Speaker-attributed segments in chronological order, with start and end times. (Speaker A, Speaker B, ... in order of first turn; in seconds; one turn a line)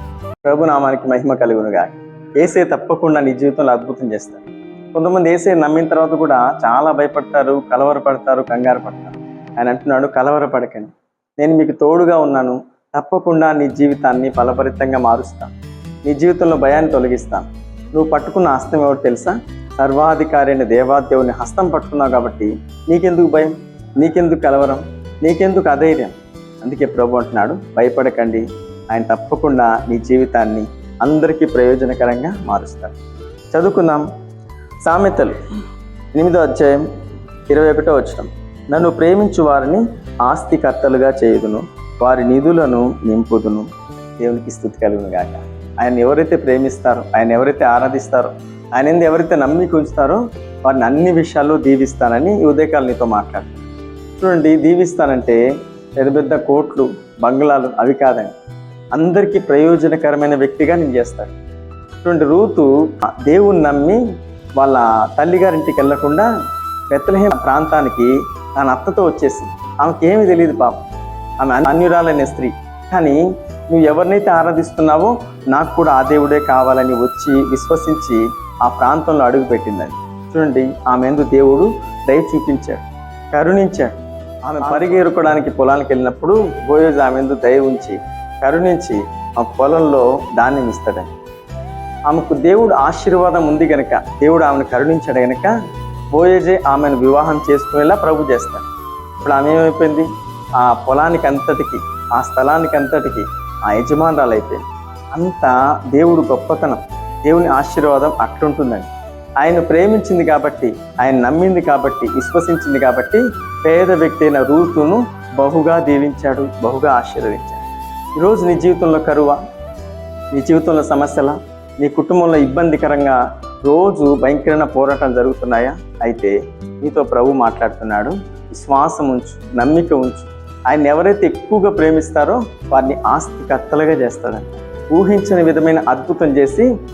Speaker A: 0.4-15.5
Speaker A: 16.0-32.9
Speaker A: 33.5-34.1
Speaker A: 34.8-35.4
Speaker A: 36.1-36.9
Speaker A: 37.5-43.7
Speaker A: 44.2-53.6
Speaker A: 54.2-55.4
Speaker A: 56.0-58.3
Speaker A: 58.9-61.3
Speaker A: 62.0-64.0
Speaker A: 64.5-66.3
Speaker A: 66.9-70.8
Speaker A: 71.4-83.9
Speaker A: 84.5-91.1
Speaker A: 92.1-95.5
Speaker A: 96.1-98.7
Speaker A: 99.2-117.6
Speaker A: 118.2-119.4
Speaker A: 120.3-136.7